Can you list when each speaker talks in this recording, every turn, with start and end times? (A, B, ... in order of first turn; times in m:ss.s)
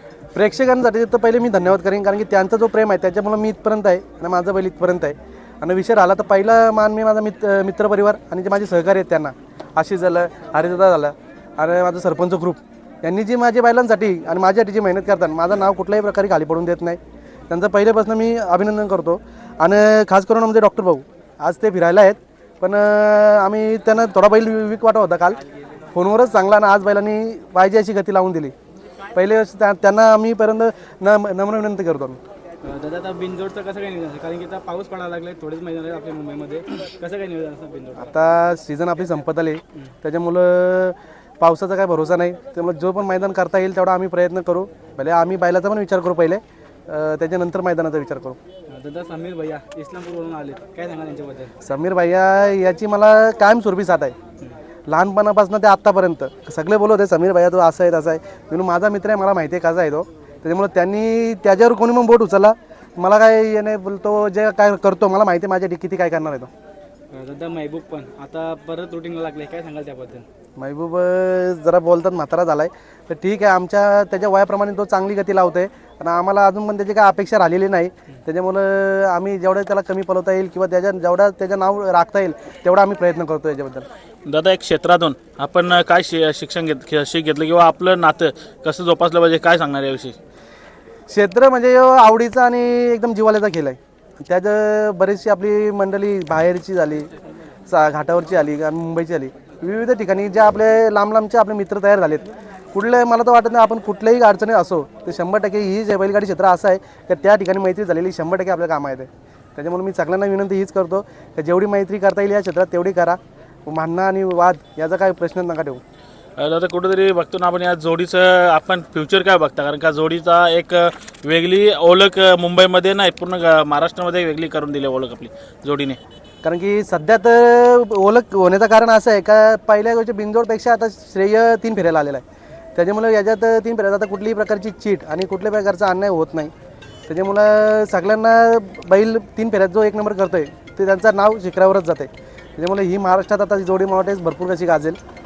0:00.4-0:17.0 A
0:17.5-0:25.4 A
0:25.9-0:28.5 A
0:29.1-0:32.2 A
0:32.6-0:38.1 B
0:38.0-0:48.4 A
0:48.7-0:51.5 B
0:51.6-0:54.2 A
0:54.9-1:06.5 A
1:07.1-1:10.2 B
1:10.6-1:23.9 A
1:24.3-1:30.2 C
1:31.1-1:37.1 A
1:37.7-1:55.8 A
1:56.4-2:06.0 C
2:06.4-2:12.2 A
2:12.8-2:16.5 A
2:17.1-2:25.0 A